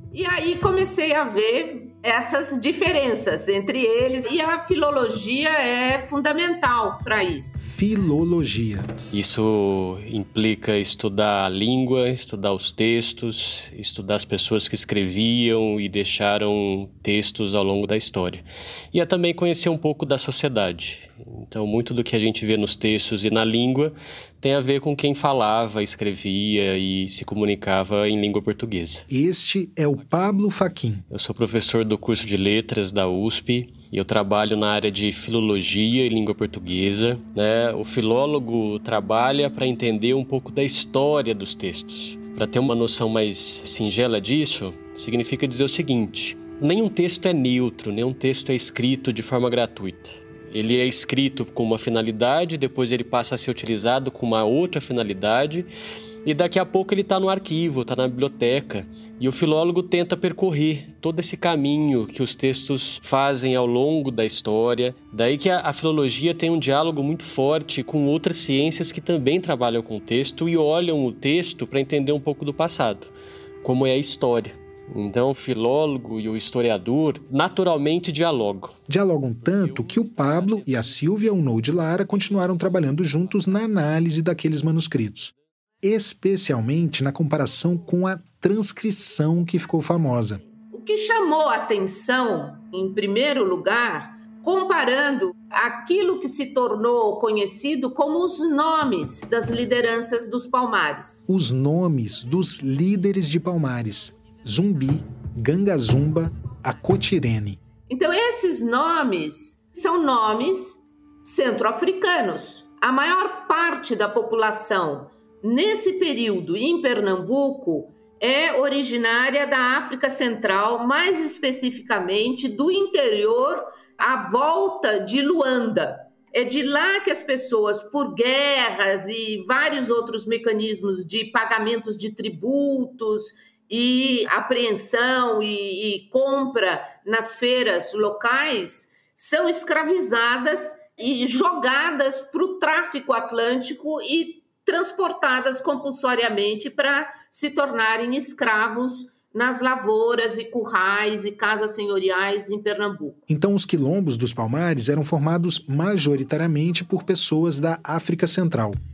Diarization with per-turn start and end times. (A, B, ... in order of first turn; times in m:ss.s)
0:00.1-0:07.6 A
0:07.6-0:08.9 B
0:09.1-0:29.1 C
0:29.1-0:31.0 B
0:31.1-0:55.7 C
0:56.2-1:18.8 C
1:18.9-1:30.4 B
1:19.5-1:21.1 C
1:22.1-1:23.0 C
1:30.7-1:41.2 A
1:41.3-1:47.6 B
1:47.9-2:33.2 A
2:33.3-2:38.8 B